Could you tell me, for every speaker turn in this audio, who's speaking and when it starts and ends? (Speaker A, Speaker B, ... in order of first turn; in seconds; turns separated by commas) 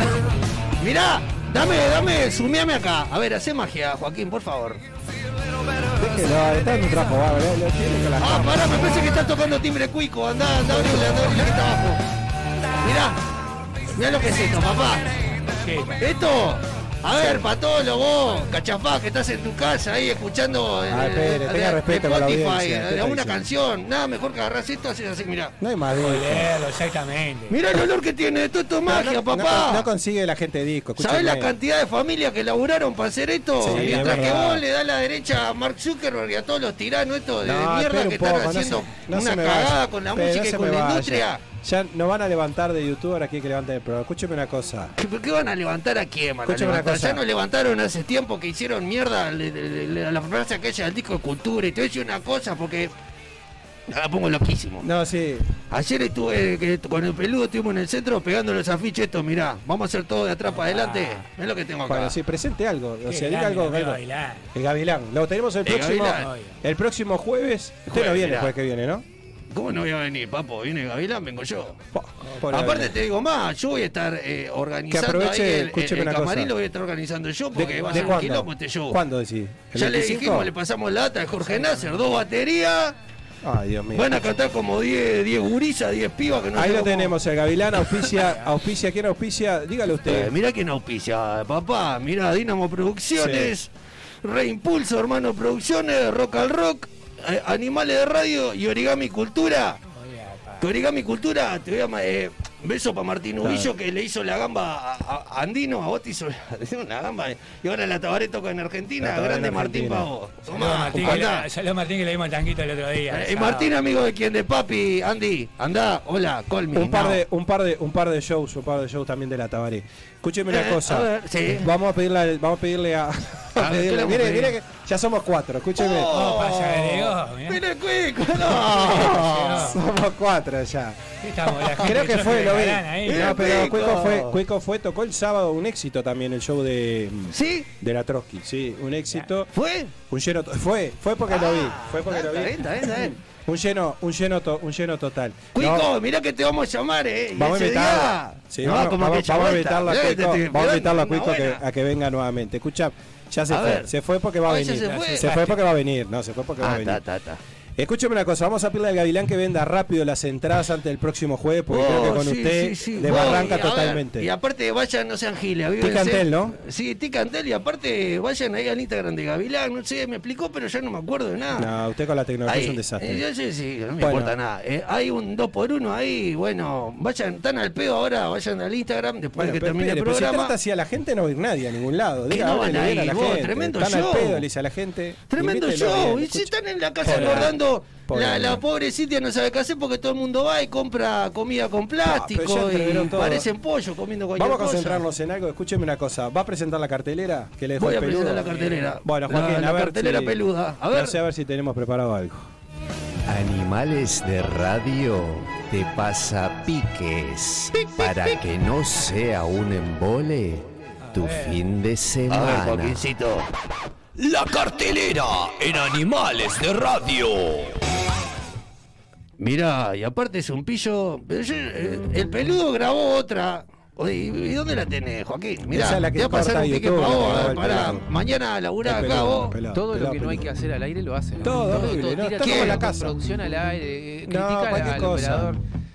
Speaker A: 0.8-4.8, Speaker B: 6.0-9.3, Speaker A: 8.2-12.0, Speaker B: 10.8-11.4, Speaker A: 12.8-13.2, Speaker A: 13.9-15.1, Speaker C: 15.5-16.0, Speaker A: 15.9-25.5, Speaker B: 17.1-17.5, Speaker B: 20.9-23.4, Speaker B: 25.6-26.5, Speaker C: 25.9-27.6, Speaker A: 27.5-29.9, Speaker B: 28.9-31.5, Speaker A: 31.0-41.4, Speaker B: 33.6-34.6, Speaker C: 33.8-34.1, Speaker B: 37.4-44.9, Speaker A: 45.0-52.9, Speaker B: 46.5-47.2, Speaker A: 53.9-54.9, Speaker B: 54.8-55.5, Speaker A: 55.7-62.2, Speaker C: 60.5-61.3, Speaker B: 61.9-64.0, Speaker C: 63.0-64.5, Speaker B: 64.5-69.0, Speaker A: 65.6-66.3, Speaker C: 66.1-66.6, Speaker A: 67.8-68.5, Speaker A: 69.5-71.8, Speaker B: 71.9-73.0, Speaker C: 72.2-72.7, Speaker A: 72.5-79.0, Speaker B: 74.9-76.5, Speaker B: 77.5-80.5, Speaker C: 77.6-78.2, Speaker A: 79.7-83.0, Speaker C: 81.4-82.2, Speaker B: 83.4-84.2, Speaker A: 83.9-87.1, Speaker B: 86.5-90.3, Speaker A: 87.8-88.2, Speaker C: 88.2-88.5, Speaker A: 90.0-93.7, Speaker B: 93.2-93.5, Speaker A: 94.2-99.8, Speaker C: 99.9-100.6, Speaker A: 100.6-111.5, Speaker B: 103.4-103.7, Speaker B: 109.0-110.1, Speaker C: 110.5-113.7, Speaker A: 113.1-117.2, Speaker B: 116.7-126.2, Speaker A: 120.5-121.7, Speaker A: 123.5-124.5, Speaker A: 125.8-129.8, Speaker C: 126.1-127.6, Speaker B: 128.3-131.2, Speaker C: 128.8-129.8, Speaker C: 131.2-133.3, Speaker B: 131.8-145.9, Speaker A: 133.1-134.4, Speaker A: 137.3-137.7, Speaker A: 139.5-139.9, Speaker A: 141.2-143.2, Speaker A: 145.5-151.6, Speaker B: 147.3-157.0, Speaker A: 153.5-153.9, Speaker A: 154.4-155.5, Speaker C: 154.8-155.6, Speaker A: 156.6-157.4, Speaker B: 157.8-164.3, Speaker A: 161.7-171.7, Speaker B: 165.8-166.6, Speaker B: 171.6-173.2, Speaker A: 172.4-180.5, Speaker B: 174.0-174.3, Speaker B: 179.4-188.6, Speaker A: 182.3-184.4, Speaker A: 185.3-195.0, Speaker C: 187.1-187.4, Speaker B: 192.0-193.5, Speaker B: 194.3-200.4, Speaker A: 197.8-201.2, Speaker C: 198.5-198.9, Speaker B: 200.9-202.5, Speaker D: 203.3-213.1, Speaker C: 211.1-211.7, Speaker A: 212.3-213.5, Speaker E: 214.2-217.7, Speaker A: 219.4-229.6, Speaker B: 225.7-228.1, Speaker B: 228.8-230.5, Speaker F: 229.7-235.6, Speaker B: 231.4-233.2, Speaker A: 232.4-232.8, Speaker B: 234.3-235.5